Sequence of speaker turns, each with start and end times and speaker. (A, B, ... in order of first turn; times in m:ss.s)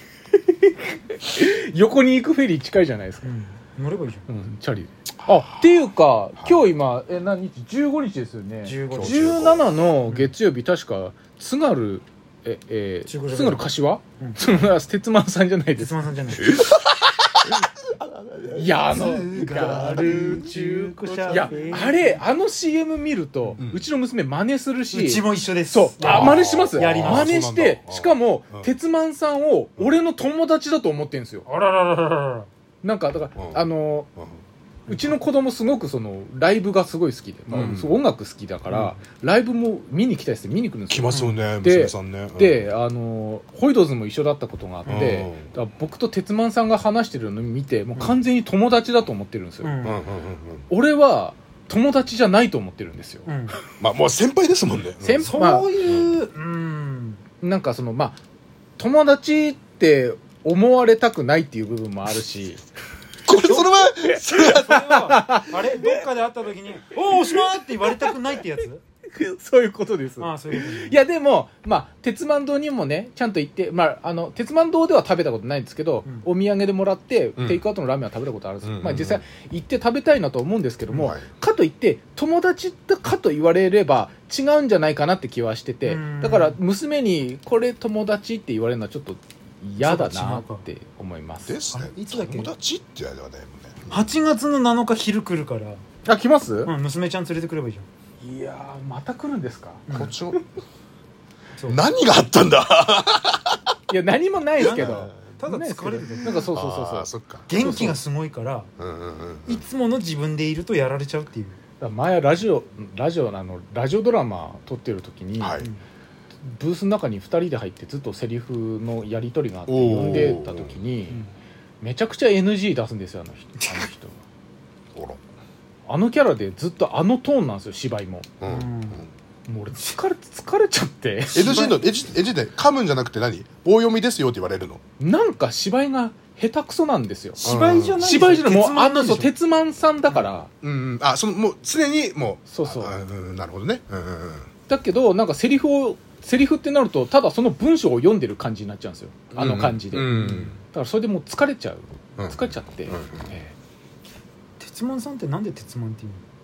0:00.5-0:03.3 A
0:03.2-0:04.2 B
0:04.3-0:16.1 A
0:05.2-0:05.7 C
0:06.4-0:06.7 C
0:08.6-0:09.5 B
0:08.9-0:09.8 C
0:10.1-0:10.3 B
0:13.1-0:14.4 B
0:15.8-0:16.6 B
0:16.4-0:21.9 C
0:18.5-0:31.5 A
0:18.9-0:22.2 B
0:23.6-0:23.8 C
0:24.9-0:27.3 B
0:26.0-0:28.7 C
0:31.4-0:32.5 B
0:32.8-0:34.1 A
0:33.4-0:33.6 C
0:34.9-0:49.8 A
0:37.5-0:38.0 C
0:38.7-0:38.9 C
0:40.9-0:42.6 C
0:41.1-0:41.4 B
0:44.9-0:45.5 C
0:49.6-0:50.0 B
0:49.8-0:50.6 C
0:50.7-0:53.3 A
0:53.2-0:53.6 B
0:53.8-0:55.3 C
0:55.0-0:55.7 A
0:55.2-0:57.2 B
0:57.4-0:58.2 A
0:58.8-1:02.6 A
1:03.2-1:04.8 C
1:03.3-1:08.8 B
1:03.7-1:06.0 A
1:07.1-1:07.4 A
1:09.1-1:31.6 A
1:10.2-1:11.0 B
1:17.4-1:17.6 C
1:18.6-1:19.2 C
1:20.9-1:21.3 C
1:25.8-1:26.6 B
1:29.8-1:30.6 B
1:31.5-1:34.0 C
1:31.7-1:32.5 B
1:33.9-1:35.8 B
1:36.0-1:36.7 A
1:36.6-1:37.9 B
1:38.2-1:40.4 A
1:39.9-1:40.2 B
1:39.9-1:40.4 C
1:41.6-1:41.8 B
1:41.7-1:43.6 C
1:43.9-1:48.0 A
1:44.6-1:45.3 C
1:44.6-1:46.5 B
1:46.2-1:48.0 C
1:47.5-1:48.7 B
1:48.8-1:49.6 C
1:49.4-1:51.6 B
1:51.8-1:55.7 A
1:55.4-1:55.7 C
1:56.4-2:01.2 A
1:59.7-2:00.8 C
2:01.8-2:04.2 A
2:05.9-2:08.3 A
2:08.4-2:09.0 C
2:08.4-2:09.1 B
2:09.5-2:11.8 A
2:11.3-2:14.8 C
2:15.0-2:20.5 A
2:17.4-2:19.3 B
2:17.4-2:18.0 C
2:20.6-2:24.5 C
2:22.5-2:22.9 A
2:24.7-2:33.5 A
2:29.3-2:30.6 C
2:30.1-2:30.5 B
2:32.2-2:33.3 C
2:34.6-2:36.2 B